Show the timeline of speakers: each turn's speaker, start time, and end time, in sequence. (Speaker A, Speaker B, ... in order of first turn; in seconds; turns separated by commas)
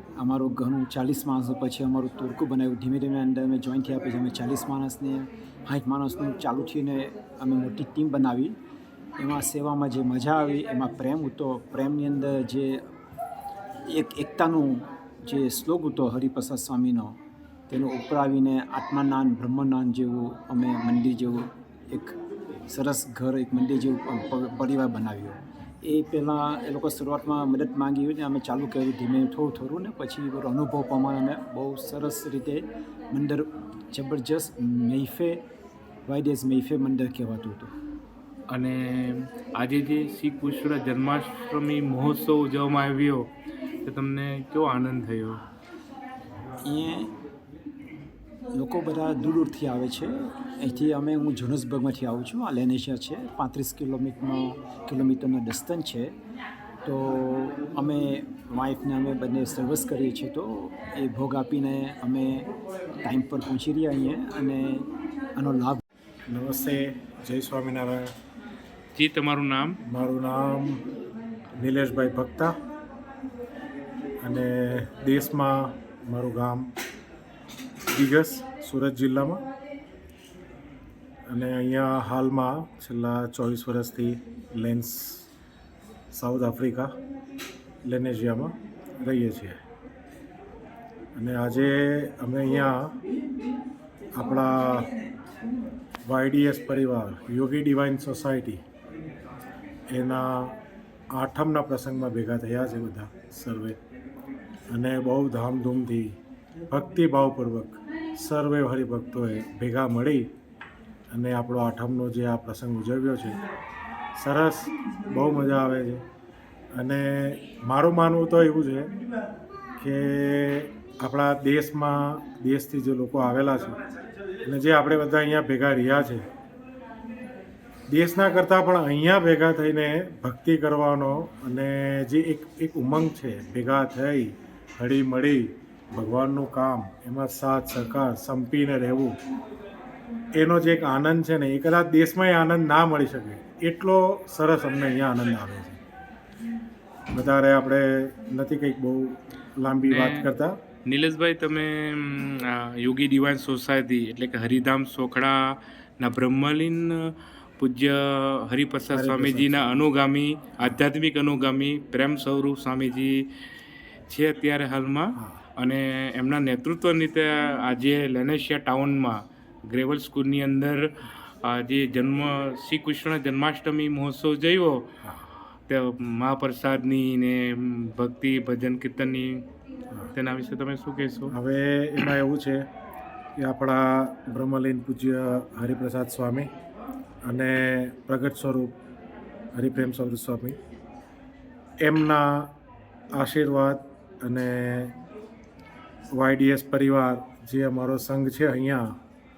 Speaker A: 0.2-8.6, Speaker A: 9.2-12.8, Speaker A: 13.9-22.2, Speaker A: 22.7-35.4, Speaker A: 36.1-37.7, Speaker B: 38.5-43.3, Speaker B: 43.8-45.4, Speaker A: 46.6-47.1, Speaker A: 48.5-56.1, Speaker A: 56.9-62.5, Speaker A: 63.0-65.8, Speaker C: 66.3-68.1, Speaker B: 68.9-69.8, Speaker C: 69.9-70.8, Speaker C: 71.6-72.5, Speaker C: 74.2-76.6, Speaker C: 77.9-79.4, Speaker C: 81.3-85.2, Speaker C: 86.1-86.9, Speaker C: 87.8-89.6, Speaker C: 91.2-92.9, Speaker C: 94.1-94.9, Speaker C: 96.0-98.6, Speaker C: 99.9-100.5, Speaker C: 101.1-103.8, Speaker C: 104.7-106.1, Speaker C: 106.7-110.3, Speaker C: 111.1-113.4, Speaker C: 114.2-116.0, Speaker C: 116.7-118.9, Speaker C: 119.8-123.8, Speaker C: 124.5-126.2, Speaker C: 127.9-139.1, Speaker C: 140.4-145.8, Speaker C: 147.1-150.6, Speaker B: 149.9-150.2, Speaker B: 150.8-156.9, Speaker B: 157.6-163.2, Speaker C: 158.9-159.6, Speaker B: 164.1-170.8, Speaker B: 171.4-174.8, Speaker B: 175.7-179.4, Speaker B: 180.1-181.3, Speaker C: 181.3-182.6, Speaker C: 183.4-186.5, Speaker C: 187.2-188.7, Speaker C: 189.5-190.6, Speaker C: 191.8-192.5, Speaker C: 193.2-194.9, Speaker C: 196.1-198.8